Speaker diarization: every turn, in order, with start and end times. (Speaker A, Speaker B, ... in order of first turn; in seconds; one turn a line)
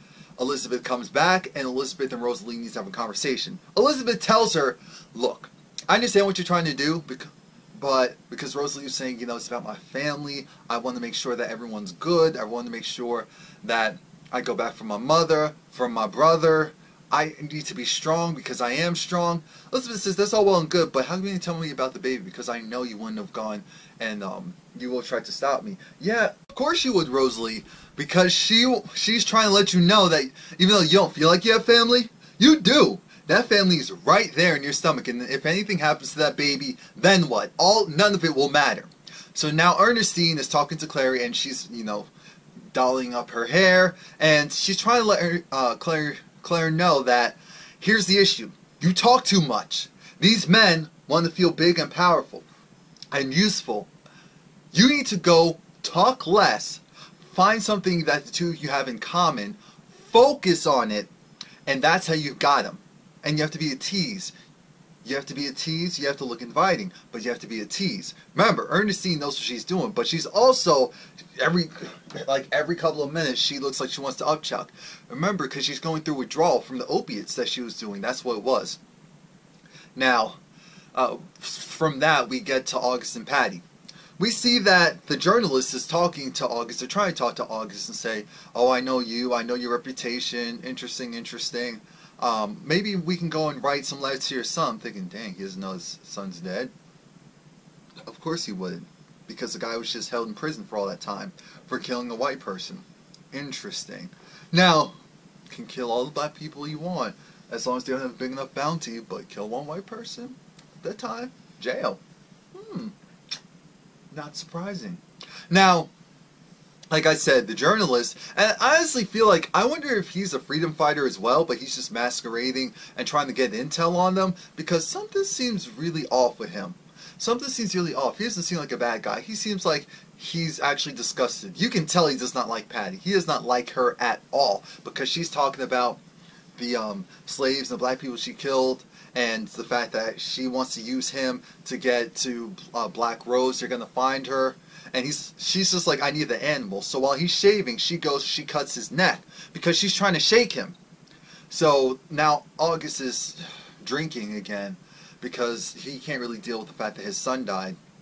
Speaker A: 0.4-42.1
Speaker A: 42.7-52.5
Speaker A: 53.1-53.9
Speaker A: 54.7-61.1
Speaker A: 61.7-64.3
Speaker A: 65.0-78.8
Speaker A: 80.0-80.4
Speaker A: 81.0-83.6
Speaker A: 84.2-96.7
Speaker A: 98.0-105.0
Speaker A: 105.5-112.0
Speaker A: 112.5-113.0
Speaker A: 114.1-115.9
Speaker A: 116.9-136.0
Speaker A: 136.6-150.8
Speaker A: 151.5-157.8